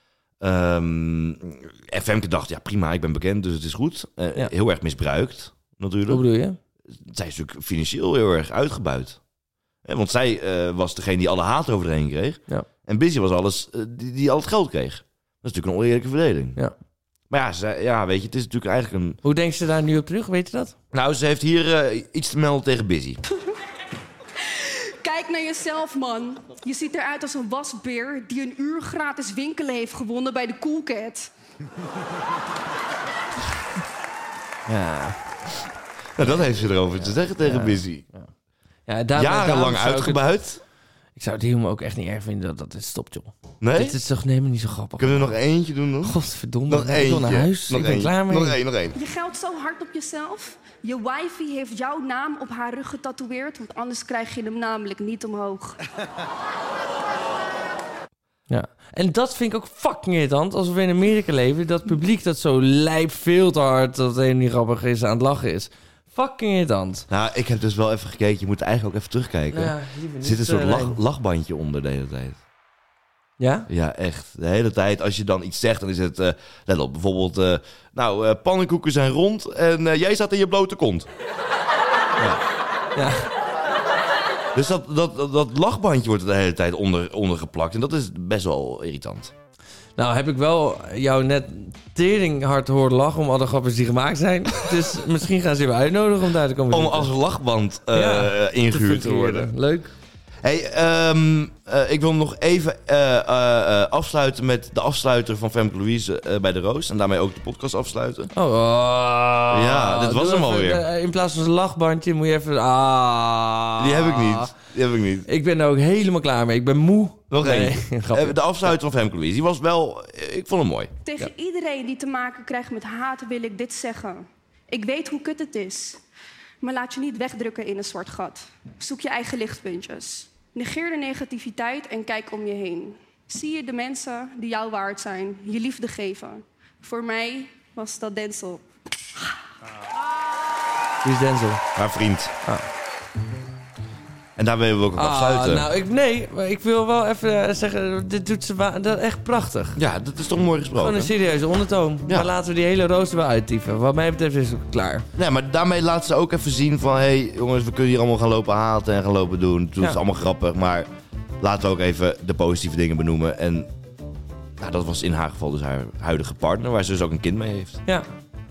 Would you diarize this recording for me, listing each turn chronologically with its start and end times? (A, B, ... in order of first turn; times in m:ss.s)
0:00.4-0:06.3 A
0:06.1-0:06.6 B
0:06.9-0:09.2 A
0:09.8-0:16.6 A
0:17.3-0:19.2 A
0:19.2-0:20.8 B
0:20.9-0:23.2 A
0:24.4-0:31.3 C
0:34.7-0:35.2 B
0:36.2-0:38.0 A
0:37.0-0:38.3 B
0:38.9-0:40.2 B
0:39.2-0:40.6 A
0:41.2-0:45.4 B
0:43.6-0:44.0 A
0:45.0-0:46.2 A
0:46.0-0:48.6 B
0:46.7-0:49.0 A
0:49.0-0:55.8 C
0:58.5-1:07.1 B
1:07.1-1:12.4 A
1:09.5-1:11.0 B
1:13.4-1:13.7 B
1:13.7-1:21.1 A
1:22.2-1:22.4 B
1:23.0-1:23.3 B
1:24.5-1:29.3 A
1:30.0-1:37.1 B
1:36.7-1:39.5 A
1:37.9-1:39.9 B
1:40.4-1:48.3 A
1:48.3-1:54.5 B
1:49.5-1:50.8 A
1:53.8-1:55.3 A
1:55.3-1:58.4 B
1:57.3-2:01.0 A
2:01.1-2:06.0 C
2:06.6-2:18.6 C
2:21.0-2:21.6 B
2:21.8-2:22.4 A
2:24.4-2:25.7 A
2:25.0-2:29.8 B
2:29.8-2:31.1 A
2:30.8-2:35.1 B
2:35.2-2:40.9 A
2:41.4-2:43.7 A
2:44.6-2:47.8 A